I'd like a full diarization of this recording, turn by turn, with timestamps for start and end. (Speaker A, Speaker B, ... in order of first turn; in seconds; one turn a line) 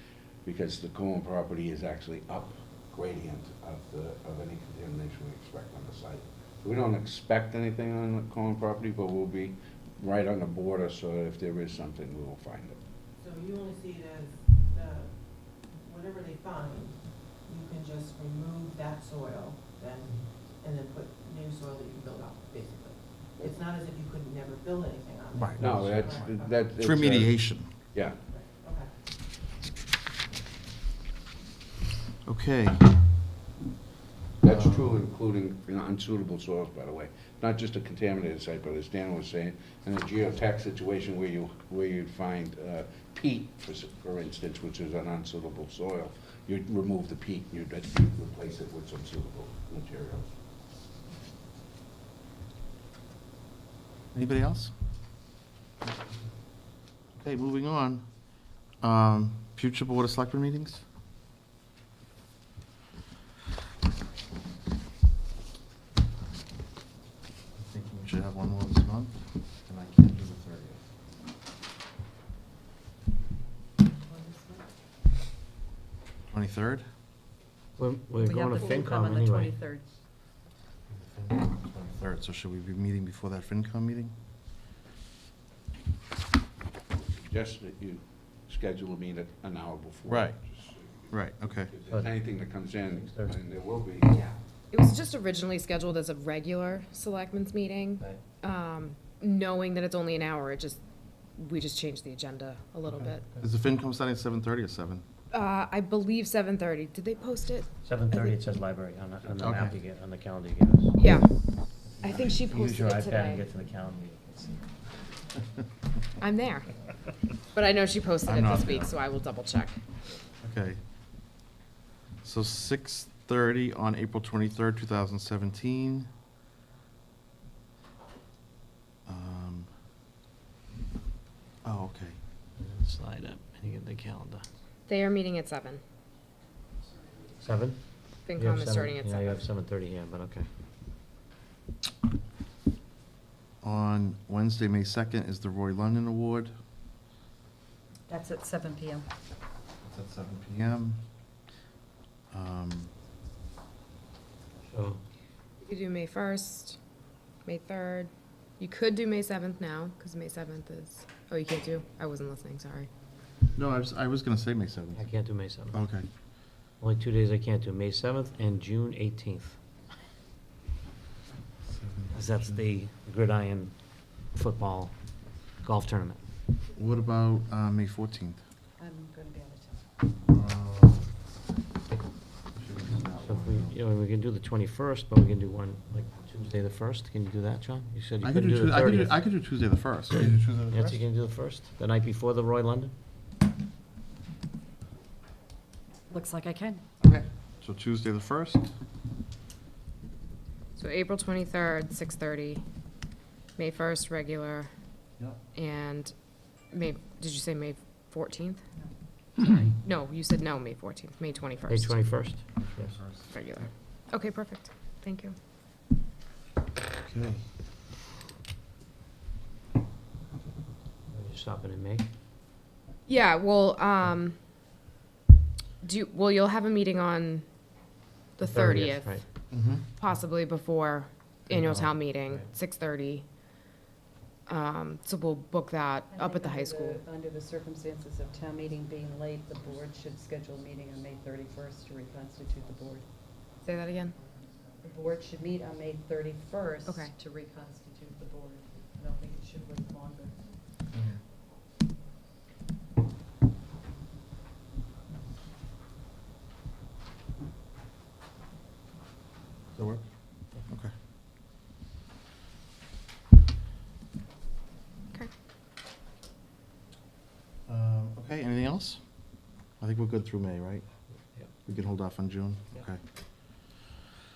Speaker A: 0.5-12.8
Speaker B: 13.2-26.6
Speaker C: 25.4-26.2
Speaker A: 25.6-28.2
Speaker C: 26.8-27.7
Speaker B: 28.3-29.0
Speaker C: 32.2-32.9
Speaker A: 34.4-50.3
Speaker C: 54.1-54.7
Speaker C: 57.1-60.8
Speaker C: 67.6-70.8
Speaker D: 74.1-74.7
Speaker C: 76.3-76.8
Speaker E: 77.8-79.5
Speaker D: 78.2-79.9
Speaker C: 80.9-84.1
Speaker A: 86.9-94.2
Speaker C: 90.0-90.5
Speaker C: 91.1-91.7
Speaker E: 93.0-93.4
Speaker F: 94.2-100.8
Speaker E: 95.4-97.0
Speaker E: 97.8-98.9
Speaker E: 99.8-100.2
Speaker F: 101.4-103.1
Speaker C: 102.8-105.0
Speaker E: 102.9-103.4
Speaker F: 105.3-107.7
Speaker E: 107.8-111.3
Speaker C: 109.4-109.8
Speaker E: 111.9-114.6
Speaker F: 112.0-112.8
Speaker F: 116.2-116.7
Speaker F: 117.5-119.8
Speaker C: 118.3-119.0
Speaker C: 120.4-120.8
Speaker C: 122.2-126.1
Speaker C: 129.1-129.7
Speaker C: 131.6-132.2
Speaker E: 132.6-134.5
Speaker F: 134.9-135.8
Speaker E: 137.4-140.5
Speaker F: 138.3-139.2
Speaker C: 143.6-146.5
Speaker D: 148.1-149.1
Speaker C: 149.8-151.0
Speaker C: 152.3-152.9
Speaker E: 154.7-155.0
Speaker F: 155.6-156.8
Speaker F: 157.4-162.9
Speaker C: 163.6-165.1
Speaker E: 164.9-165.8
Speaker C: 165.7-166.1
Speaker E: 166.8-169.6
Speaker C: 171.7-172.6
Speaker E: 172.1-173.8
Speaker E: 174.3-174.9
Speaker E: 175.6-176.2
Speaker C: 176.7-178.4
Speaker D: 178.8-179.8
Speaker C: 180.3-181.1
Speaker C: 182.6-183.8
Speaker E: 183.2-189.2
Speaker C: 188.2-191.0
Speaker E: 190.7-192.9
Speaker D: 196.1-196.8
Speaker C: 197.0-198.7
Speaker F: 200.8-202.6
Speaker F: 203.6-204.7
Speaker F: 205.6-206.1
Speaker F: 206.7-208.6
Speaker F: 209.5-211.8
Speaker E: 211.7-213.0
Speaker C: 212.6-213.3
Speaker F: 213.3-215.3
Speaker C: 217.0-217.4
Speaker E: 221.1-222.1
Speaker F: 223.1-224.4
Speaker F: 225.8-227.5
Speaker F: 228.4-229.1
Speaker E: 228.5-229.3
Speaker C: 229.5-229.9
Speaker F: 230.0-233.3
Speaker E: 231.5-232.6
Speaker F: 234.5-236.9
Speaker D: 236.1-243.1
Speaker F: 243.6-244.1
Speaker D: 244.8-250.4
Speaker C: 250.9-251.2
Speaker C: 259.8-260.9
Speaker C: 267.7-273.7